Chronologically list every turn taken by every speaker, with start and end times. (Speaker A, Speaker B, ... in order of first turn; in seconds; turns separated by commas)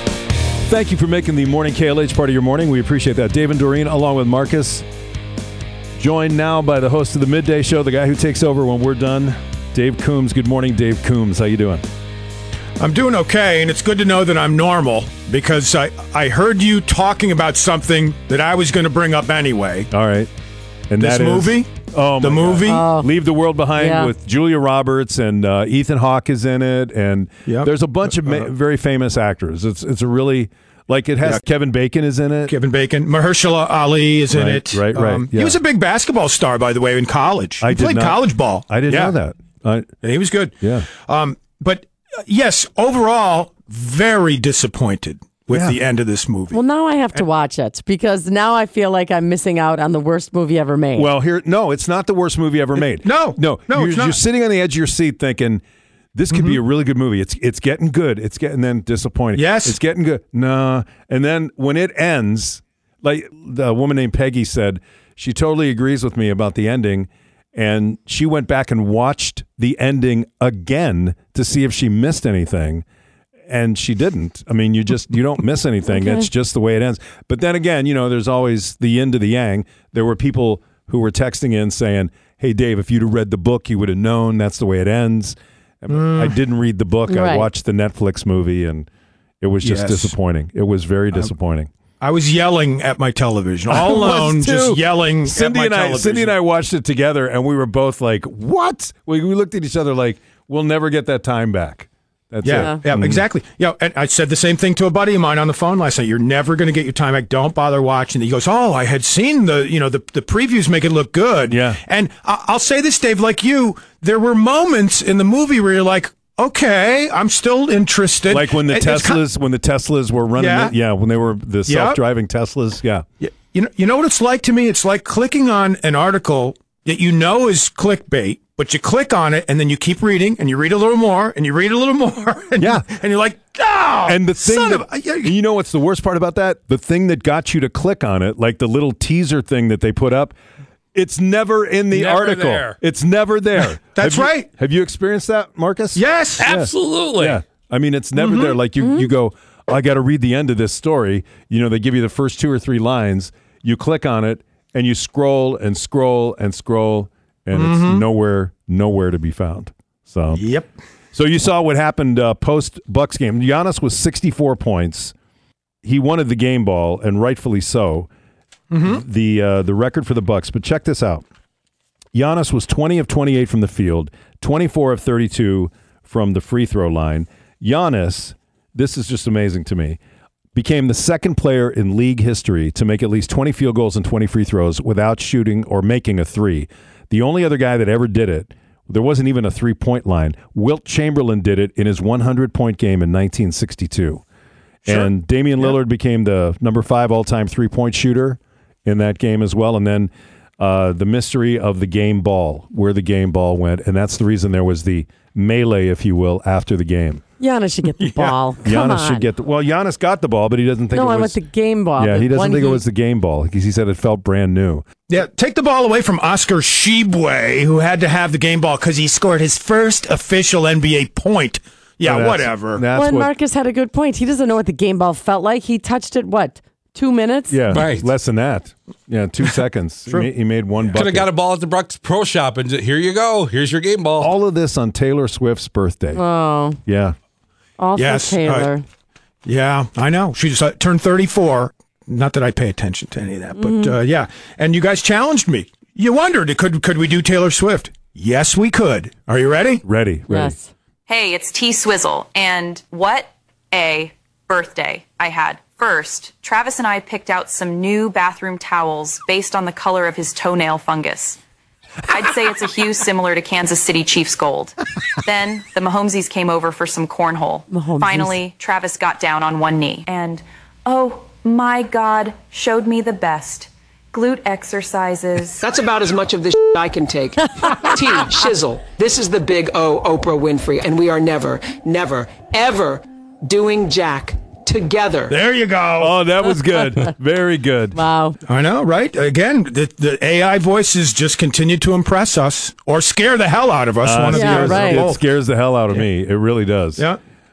Speaker A: 0.7-4.8, Speaker A: 6.0-11.8, Speaker B: 12.8-19.9, Speaker A: 19.9-20.3, Speaker A: 20.9-32.5, Speaker B: 21.0-21.7, Speaker B: 22.2-22.8, Speaker C: 22.6-23.1, Speaker C: 23.7-24.1, Speaker B: 32.5-39.1, Speaker A: 34.3-35.6, Speaker A: 37.6-39.9, Speaker B: 40.0-46.6, Speaker A: 40.6-40.9, Speaker A: 45.5-45.8, Speaker C: 46.5-51.1, Speaker A: 50.9-55.6, Speaker B: 52.8-54.2, Speaker A: 56.1-72.8, Speaker B: 56.3-56.6, Speaker B: 59.4-59.8, Speaker A: 73.5-88.9, Speaker C: 75.9-76.3, Speaker B: 85.9-86.3, Speaker C: 87.1-87.5, Speaker A: 89.4-91.7, Speaker B: 89.6-90.1, Speaker B: 92.0-96.3, Speaker A: 93.7-103.2, Speaker B: 102.4-119.2, Speaker A: 111.5-111.8, Speaker A: 118.3-123.0, Speaker B: 120.3-120.7, Speaker B: 121.7-122.0, Speaker B: 123.2-135.3, Speaker A: 132.6-132.8, Speaker A: 134.1-140.3, Speaker A: 140.9-160.4, Speaker D: 141.9-142.8, Speaker B: 143.9-144.5, Speaker B: 145.9-146.5, Speaker D: 146.4-147.4, Speaker B: 148.2-148.6, Speaker B: 157.5-158.0, Speaker B: 160.3-160.7, Speaker A: 161.1-165.1, Speaker A: 165.8-168.1, Speaker B: 168.7-169.0, Speaker A: 168.8-171.2, Speaker A: 172.1-180.0, Speaker A: 180.5-194.2, Speaker A: 194.8-207.2, Speaker B: 194.9-195.7, Speaker C: 207.4-209.3, Speaker B: 208.0-208.4, Speaker A: 208.6-211.4, Speaker C: 210.9-212.8, Speaker A: 212.0-214.8, Speaker B: 215.1-222.8, Speaker A: 222.0-223.3, Speaker C: 222.9-227.6, Speaker A: 227.5-231.3, Speaker D: 227.7-228.1, Speaker D: 230.9-234.3, Speaker A: 234.2-236.2, Speaker C: 236.1-236.8, Speaker A: 236.8-237.1, Speaker C: 237.8-238.8, Speaker B: 237.9-238.7, Speaker B: 239.4-249.8, Speaker C: 243.6-243.9, Speaker A: 249.8-250.6, Speaker C: 250.3-250.7, Speaker E: 251.1-261.4, Speaker E: 262.1-275.6, Speaker C: 267.7-268.4, Speaker F: 275.6-285.3, Speaker B: 285.3-286.1, Speaker A: 286.0-288.0, Speaker C: 287.9-288.4, Speaker B: 288.4-295.2, Speaker A: 294.0-297.0, Speaker C: 294.3-295.1